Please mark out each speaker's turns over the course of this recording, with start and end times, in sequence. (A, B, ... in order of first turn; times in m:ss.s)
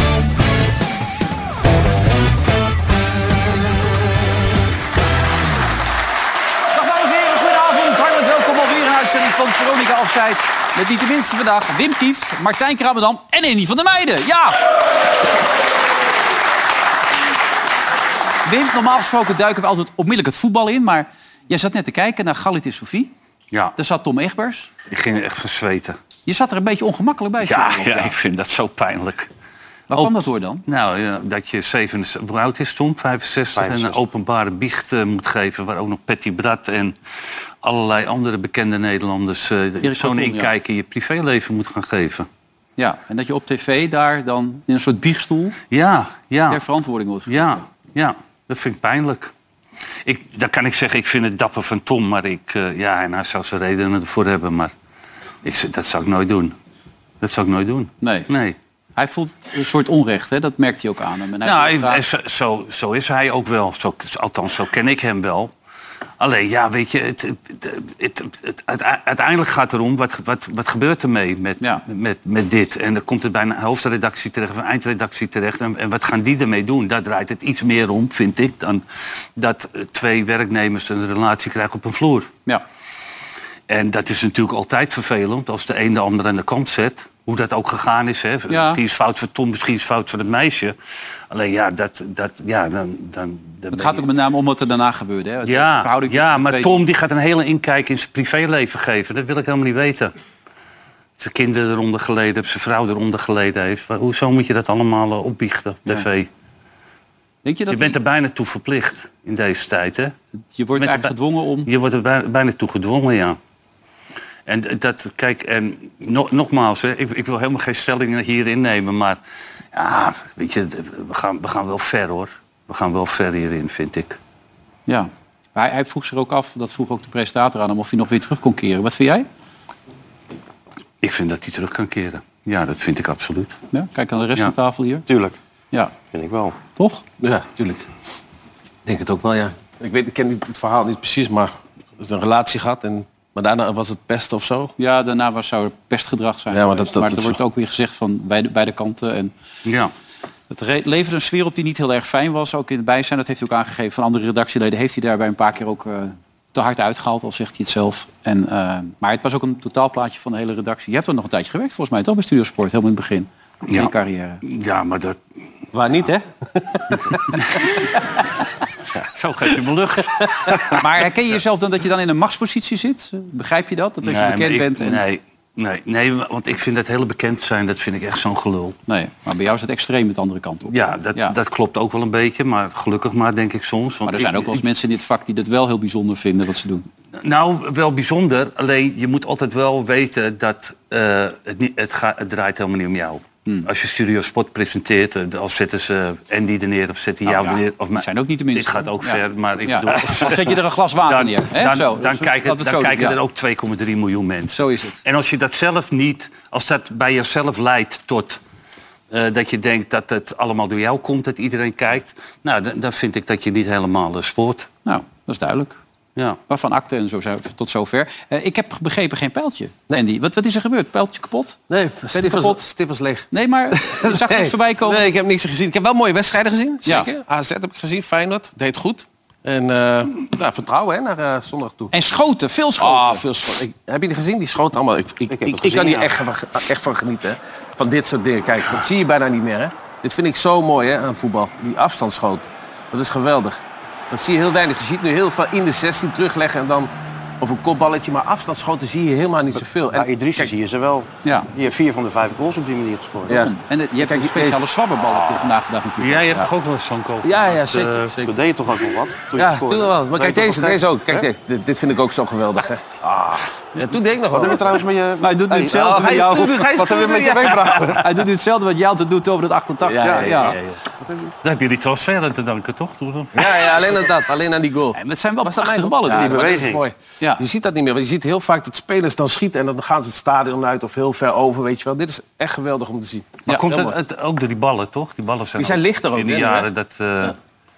0:06.7-0:14.6 A
0:18.4-0:23.1 A
0:23.8-0:24.7 A
0:24.9-0:26.0 B
0:26.3-0:28.2 A
0:27.4-0:29.3 B
0:29.9-0:30.6 A
0:29.9-0:37.0 B
0:33.5-0:34.0 C
0:37.6-0:42.3 B
0:39.8-0:40.5 A
0:42.8-0:45.6 A
0:45.7-0:46.6 B
0:46.5-0:47.6 A
0:47.3-0:49.3 B
0:50.0-0:54.7 B
0:55.4-0:56.6 B
0:57.2-0:58.6 B
0:58.0-0:58.3 A
0:59.0-1:02.0 A
1:01.4-1:05.5 B
1:06.2-1:18.8 B
1:19.4-1:22.3 B
1:23.7-1:30.8 B
1:28.5-1:28.8 A
1:31.3-1:34.0 B
1:33.7-1:36.8 A
1:35.5-1:40.1 B
1:41.2-1:46.3 B
1:47.4-1:48.0 A
1:47.7-1:50.1 B
1:50.6-1:51.7 A
1:50.8-1:51.1 B
1:51.6-1:53.4 B
1:54.5-1:59.2 B
1:59.7-2:04.2 B
2:04.9-2:09.3 A
2:11.0-2:13.6 B
2:13.7-2:15.1 A
2:15.1-2:15.4 C
2:16.1-2:16.6 C
2:16.8-2:17.0 A
2:17.2-2:17.9 D
2:18.9-2:24.7 D
2:24.8-2:29.3 A
2:26.5-2:27.4 D
2:29.6-2:29.9 B
2:30.5-2:44.4 A
2:44.4-2:45.2 B
2:45.7-2:47.4 D
2:47.4-2:47.8 B
2:49.1-2:50.6 B
2:50.7-2:55.0 A
2:54.0-2:58.8 B
2:58.9-3:01.4 A
3:00.7-3:04.6 B
3:04.1-3:06.8 A
3:07.2-3:28.4 B
3:17.3-3:23.2 A
3:24.5-3:25.0 A
3:29.1-3:34.7 B
3:34.9-3:35.8 A
3:36.5-3:41.6 A
3:41.7-3:51.9 D
3:42.1-3:42.7 A
3:43.3-3:45.1 A
3:51.9-3:53.2 A
3:52.8-4:06.9 D
3:55.3-3:56.1 C
4:07.4-4:10.5 D
4:09.8-4:13.5 C
4:13.3-4:14.6 D
4:13.3-4:16.5 A
4:16.0-4:18.1 B
4:17.2-4:18.3 D
4:18.2-4:21.3 C
4:19.4-4:24.8 D
4:24.3-4:28.0 C
4:25.2-4:30.6 A
4:25.7-4:28.0 D
4:29.8-4:30.7 D
4:30.0-4:31.2 C
4:31.4-4:33.8 B
4:33.4-4:44.0 D
4:35.0-4:36.5 A
4:36.1-4:36.8 C
4:43.5-4:47.4 B
4:45.6-4:46.7 D